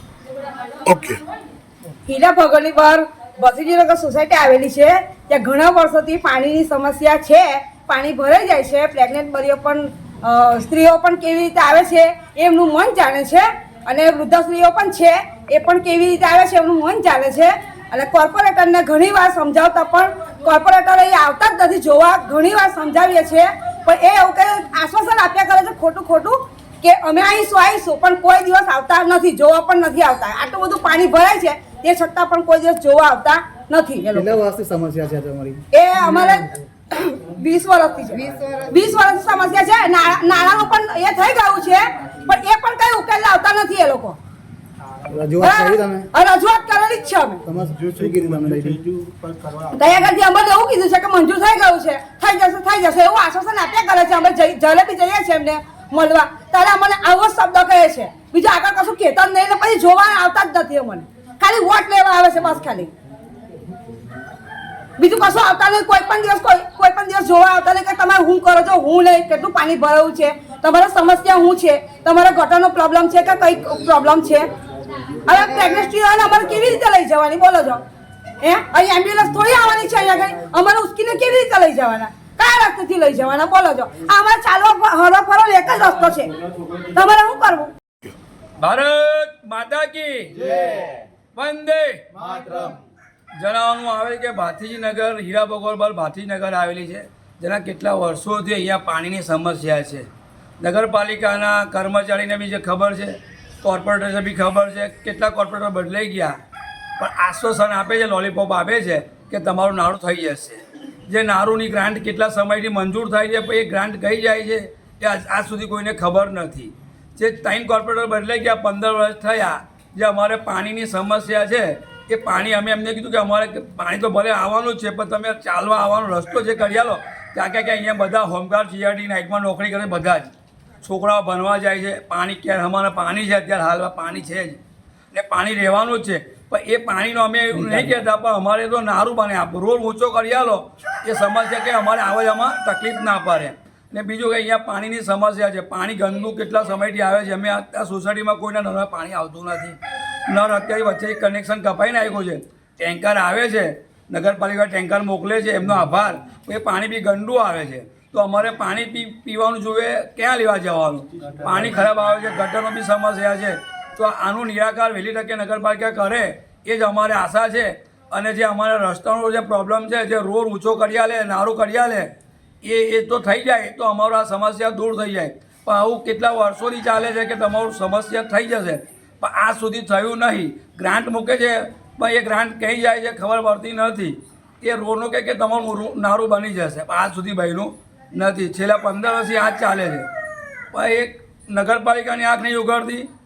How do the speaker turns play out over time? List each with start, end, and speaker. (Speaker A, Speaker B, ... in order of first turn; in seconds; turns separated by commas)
Speaker A: 2.0-34.4, Speaker B: 34.1-35.6, Speaker A: 35.7-44.2, Speaker B: 45.1-46.1, Speaker A: 45.4-47.4, Speaker B: 47.4-48.8, Speaker A: 49.7-62.9, Speaker A: 65.0-74.5, Speaker A: 75.2-77.8, Speaker A: 78.4-86.3, Speaker A: 86.9-87.7, Speaker C: 88.6-92.0, Speaker C: 93.3-100.1, Speaker C: 100.6-106.4, Speaker C: 107.0-130.3, Speaker C: 130.8-134.6, Speaker C: 135.1-172.1, Speaker C: 172.6-190.1, Speaker C: 190.7-193.1